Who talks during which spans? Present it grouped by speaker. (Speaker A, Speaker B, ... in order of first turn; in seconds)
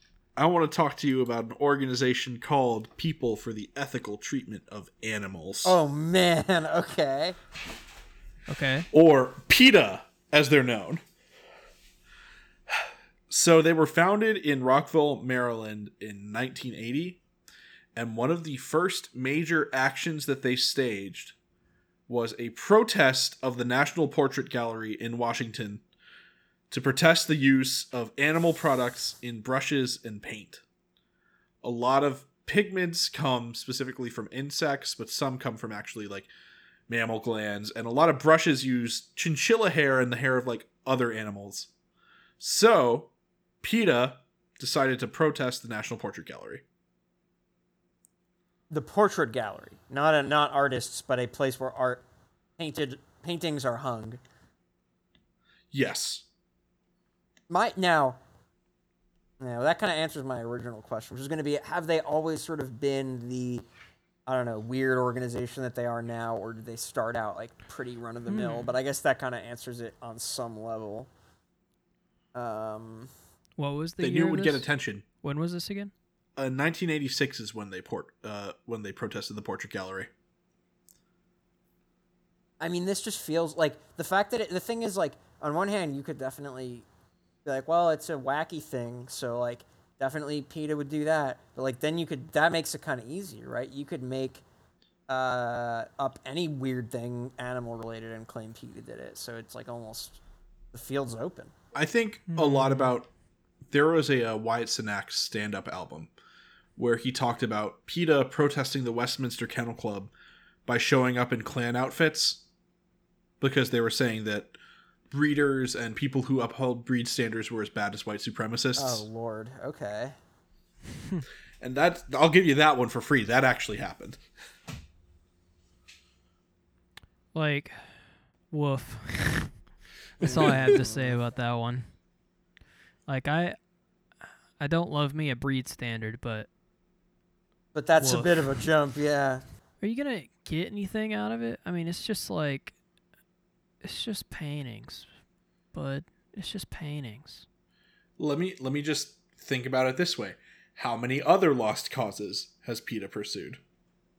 Speaker A: 0.3-5.8, 8.9-11.0, 12.7-17.2, 17.9-21.4, 22.1-25.8, 26.7-30.6, 31.6-36.3, 36.9-41.7, 42.4-43.1, 43.6-46.6, 55.7-56.2, 74.0-75.0, 76.3-80.1, 101.7-103.1, 103.7-106.1, 106.8-110.1, 110.7-112.4, 113.4-114.5, 115.1-119.0, 121.6-124.2, 148.2-153.6
Speaker B: 5.6-7.4, 48.7-52.0, 52.6-54.2, 57.5-58.2, 59.4-63.6, 64.3-71.1, 72.3-73.1, 82.6-86.8, 87.4-94.4, 95.1-100.2, 100.7-101.5, 118.8-120.1, 130.2-131.2, 137.7-139.4
Speaker C: 8.5-8.9, 68.3-68.7, 73.6-74.7, 75.2-75.9, 102.3-102.9, 127.3-127.8, 128.5-129.5, 130.2-131.9, 133.1-133.6, 134.6-136.5, 138.0-138.6, 139.8-142.7, 143.8-145.1, 145.7-147.4